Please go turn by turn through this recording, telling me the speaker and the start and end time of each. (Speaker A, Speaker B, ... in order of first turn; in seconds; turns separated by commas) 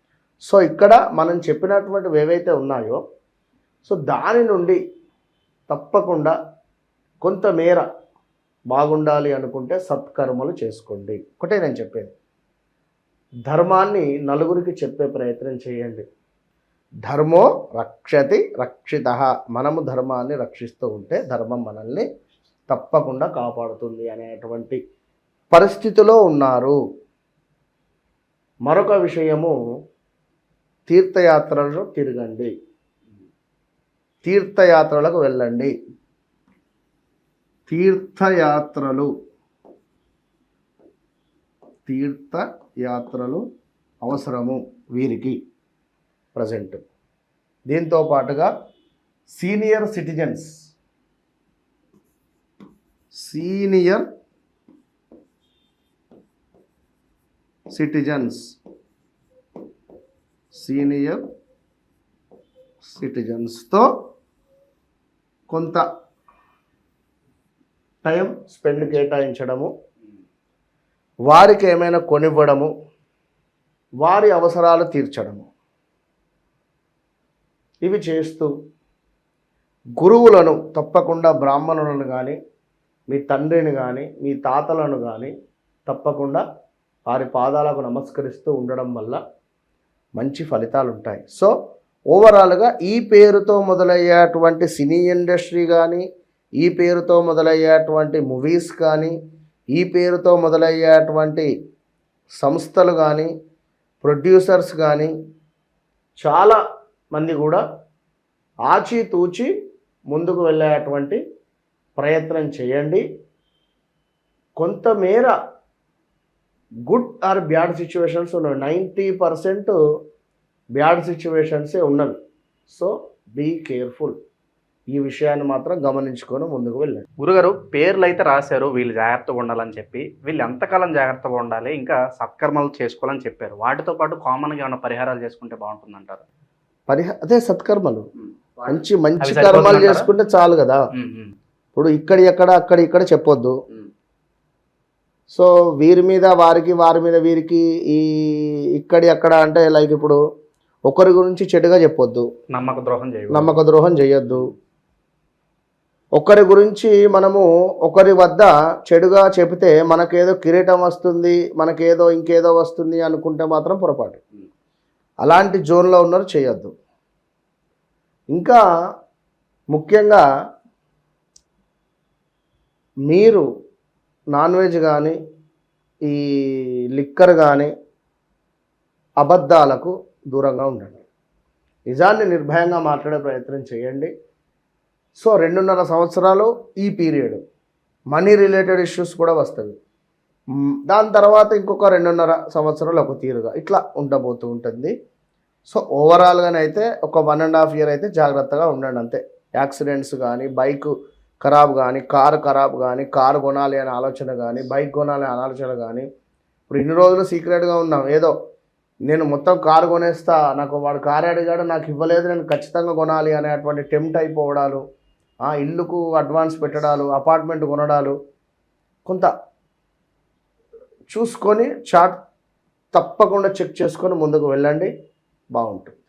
Speaker A: 0.5-3.0, Speaker A: 3.9-4.8, Speaker A: 5.7-6.3, Speaker A: 7.2-7.9, Speaker A: 8.7-12.1, Speaker A: 13.5-16.1, Speaker A: 17.1-22.1, Speaker A: 22.7-24.8, Speaker A: 25.5-26.8, Speaker A: 28.7-29.6, Speaker A: 30.9-32.5, Speaker A: 34.2-35.7, Speaker A: 37.7-39.1, Speaker A: 41.9-43.4, Speaker A: 44.0-45.4, Speaker A: 46.4-46.8, Speaker A: 47.7-48.5, Speaker A: 49.3-50.7, Speaker A: 53.1-54.0, Speaker A: 57.7-58.5, Speaker A: 60.5-61.2, Speaker A: 62.9-63.9, Speaker A: 65.5-65.8, Speaker A: 68.0-69.7, Speaker A: 71.3-72.7, Speaker A: 74.0-75.5, Speaker A: 77.8-78.5, Speaker A: 80.0-82.4, Speaker A: 83.1-85.3, Speaker A: 85.9-86.4, Speaker A: 87.1-89.2, Speaker A: 90.2-91.5, Speaker A: 92.1-96.0, Speaker A: 96.6-99.1, Speaker A: 99.8-101.5, Speaker A: 102.4-103.3, Speaker A: 104.0-105.1, Speaker A: 106.2-106.6, Speaker A: 107.1-107.6, Speaker A: 108.7-109.5, Speaker A: 110.1-111.2, Speaker A: 112.0-113.0, Speaker A: 114.6-115.3, Speaker A: 116.9-119.8, Speaker A: 120.8-122.2, Speaker A: 122.7-124.2, Speaker A: 124.9-127.0, Speaker B: 127.2-136.2, Speaker A: 136.9-138.1, Speaker B: 138.6-140.1, Speaker A: 138.7-140.8, Speaker B: 140.9-141.3, Speaker A: 141.8-143.6, Speaker A: 145.3-150.2, Speaker A: 150.9-152.3, Speaker B: 152.5-153.6, Speaker A: 153.3-154.5, Speaker A: 156.2-164.2, Speaker A: 165.2-166.7, Speaker A: 168.3-168.6, Speaker A: 169.7-170.2, Speaker A: 173.1-173.5, Speaker A: 174.4-175.2, Speaker A: 176.1-177.7, Speaker A: 179.2-181.0, Speaker A: 181.9-184.1, Speaker A: 185.2-187.4, Speaker A: 188.1-189.8, Speaker A: 190.9-194.9, Speaker A: 195.7-206.1, Speaker A: 206.7-208.3, Speaker A: 209.1-214.8, Speaker A: 215.4-218.2, Speaker A: 221.1-222.2, Speaker A: 222.9-224.9, Speaker A: 225.6-226.0